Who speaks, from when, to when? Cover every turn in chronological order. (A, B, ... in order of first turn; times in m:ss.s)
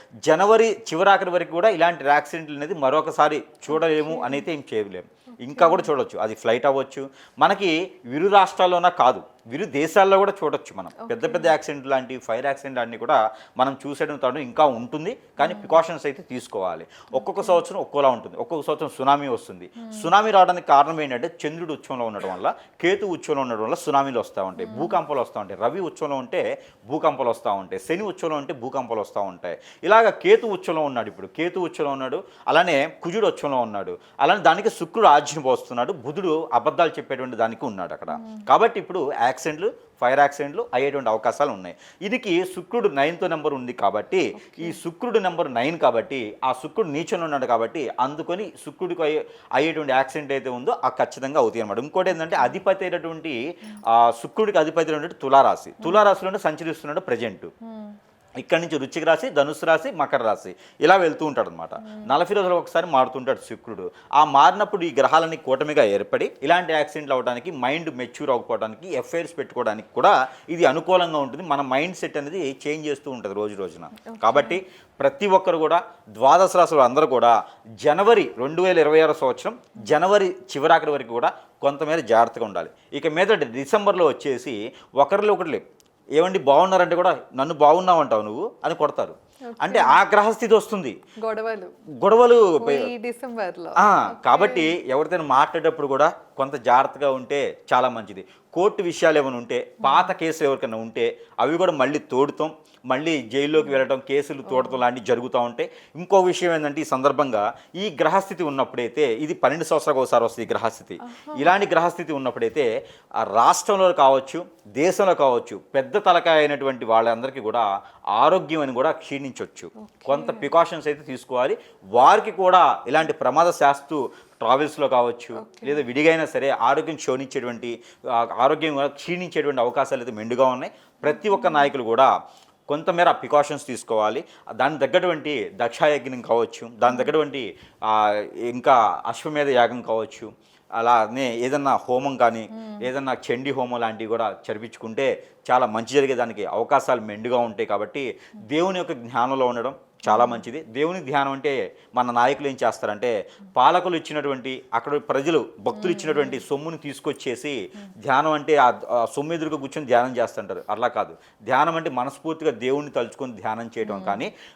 0:00.2-0:57.5 A
0:03.7-0:04.5 B
0:05.4-0:05.9 B
0:11.0-0:11.6 B
0:15.4-0:15.8 B
0:17.1-0:17.6 B
0:19.8-0:20.1 B
0:24.6-0:25.0 B
0:38.1-0:38.5 B
0:44.3-0:44.8 B
0:52.1-0:52.6 B
0:55.8-0:56.1 B
0:57.6-0:58.0 B
0:58.4-1:25.6 A
1:01.8-1:02.1 B
1:14.0-1:14.6 B
1:26.2-1:31.0 A
1:29.5-1:30.0 B
1:31.2-1:31.7 B
1:32.0-1:32.9 A
1:32.6-1:34.7 B
1:33.8-2:12.1 A
1:39.8-1:40.1 B
1:43.6-1:43.8 B
1:44.5-1:44.8 B
1:51.0-1:51.5 B
1:59.8-2:00.5 B
2:05.4-2:05.8 B
2:11.1-2:11.7 B
2:12.7-2:44.3 A
2:16.8-2:17.1 B
2:22.5-2:22.9 B
2:30.1-2:30.5 B
2:35.7-2:36.4 B
2:43.8-2:44.3 B